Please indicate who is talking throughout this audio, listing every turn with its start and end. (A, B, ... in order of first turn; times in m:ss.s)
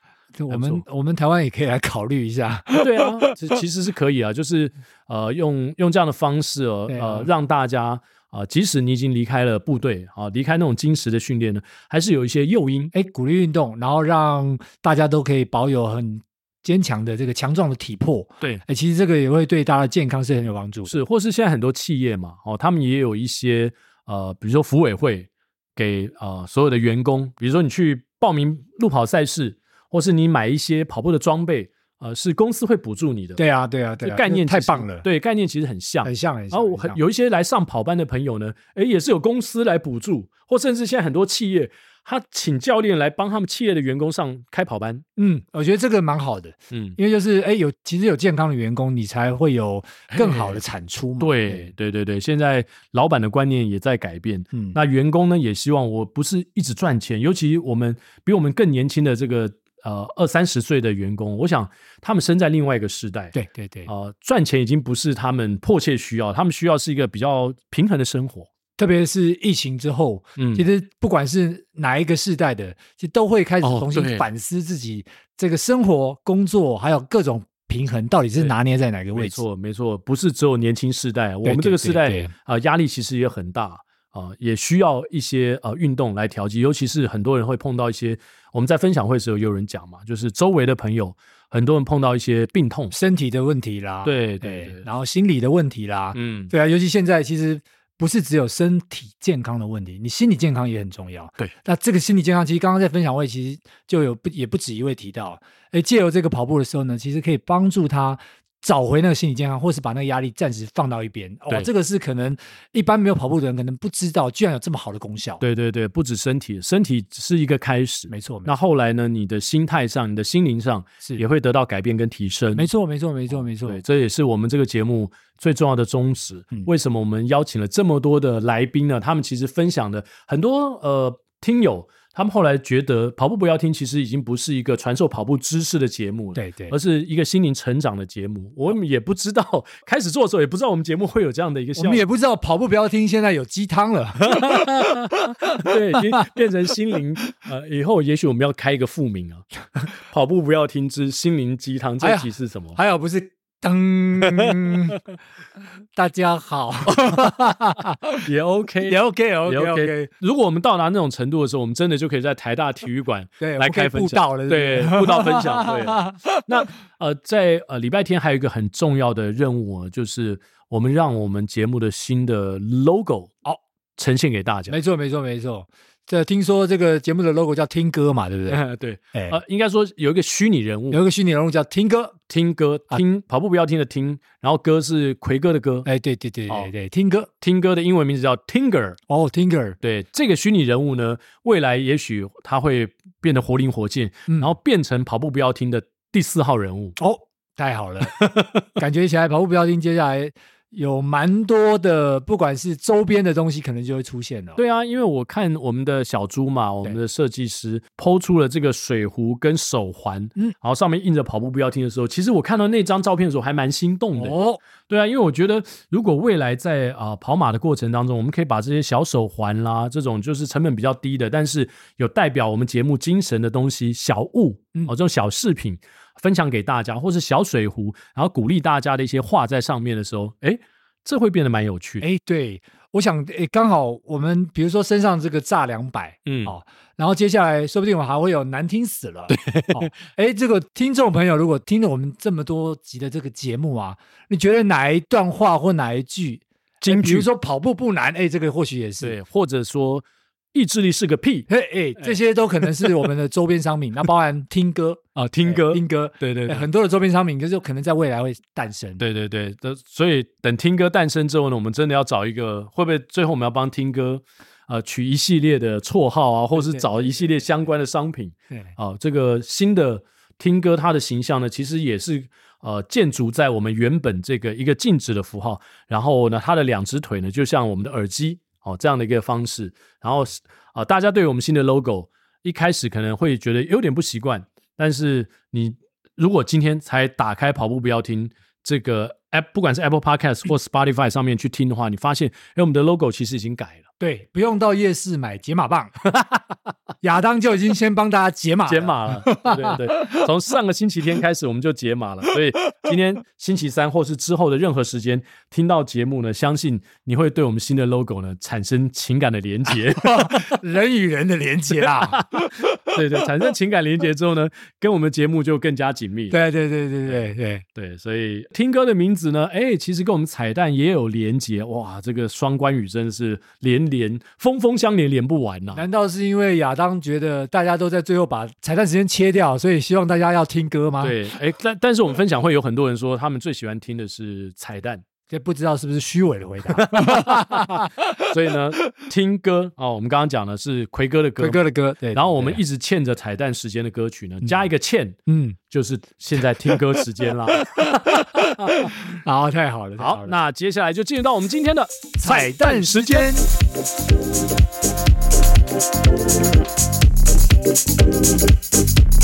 0:00.4-0:03.1 A
0:00.5-0:00.8 B
0:02.7-0:12.9 B
0:06.9-0:07.3 A
0:12.9-0:20.9 A
0:20.9-0:33.4 B
0:33.4-0:35.1 A
0:34.0-0:45.0 B
0:36.0-0:37.0 A
0:45.2-0:51.7 A
0:46.7-0:47.0 B
0:50.1-0:50.6 B
0:51.2-1:03.4 B
1:03.3-1:03.9 A
1:03.9-1:08.5 B
1:08.8-1:19.4 A
1:10.4-1:10.7 B
1:13.6-1:14.3 B
1:19.2-1:33.0 B
1:21.4-1:22.3 A
1:32.9-1:55.4 A
1:34.0-1:34.8 B
1:36.1-1:36.5 B
1:55.4-2:02.7 B
1:58.1-1:58.5 A
2:02.5-2:03.8 A
2:03.3-2:22.0 B
2:16.4-2:16.8 A
2:21.8-2:25.1 A
2:24.2-2:32.8 B
2:32.0-2:35.0 A
2:34.3-2:34.8 B
2:36.0-2:38.2 A
2:36.9-2:37.2 B
2:38.2-2:53.3 B
2:38.8-2:40.1 A
2:43.4-2:46.2 A
2:54.0-2:54.8 B
2:54.7-2:58.6 A
2:58.5-3:01.0 B
3:00.9-3:02.2 A
3:02.3-3:05.9 B
3:05.8-3:07.3 A
3:07.4-3:09.0 B
3:09.1-3:09.8 A
3:09.8-3:17.0 B
3:17.0-3:24.6 A
3:18.2-3:18.7 B
3:24.6-3:34.4 B
3:34.2-3:34.6 A
3:34.9-3:52.1 B
3:52.0-4:09.2 A
3:56.3-3:56.5 B
3:59.3-3:59.9 B
4:06.8-4:07.3 B
4:09.0-4:11.5 B
4:11.5-4:19.0 A
4:15.2-4:16.7 B
4:19.0-4:53.8 B
4:26.6-4:26.9 A
4:54.0-4:56.0 A
4:56.1-4:56.4 B
4:57.0-5:00.2 A
4:58.7-5:10.6 B
5:10.0-5:12.5 A
5:12.0-5:16.4 B
5:16.3-5:17.6 A
5:17.8-5:25.8 B
5:25.7-5:31.2 A
5:31.0-5:35.0 B
5:35.3-5:37.9 A
5:36.7-5:41.6 B
5:41.4-5:42.6 A
5:42.1-5:45.2 B
5:45.3-5:45.6 A
5:45.7-5:48.9 B
5:47.7-5:50.4 A
5:50.0-5:53.3 B
5:52.2-5:53.5 A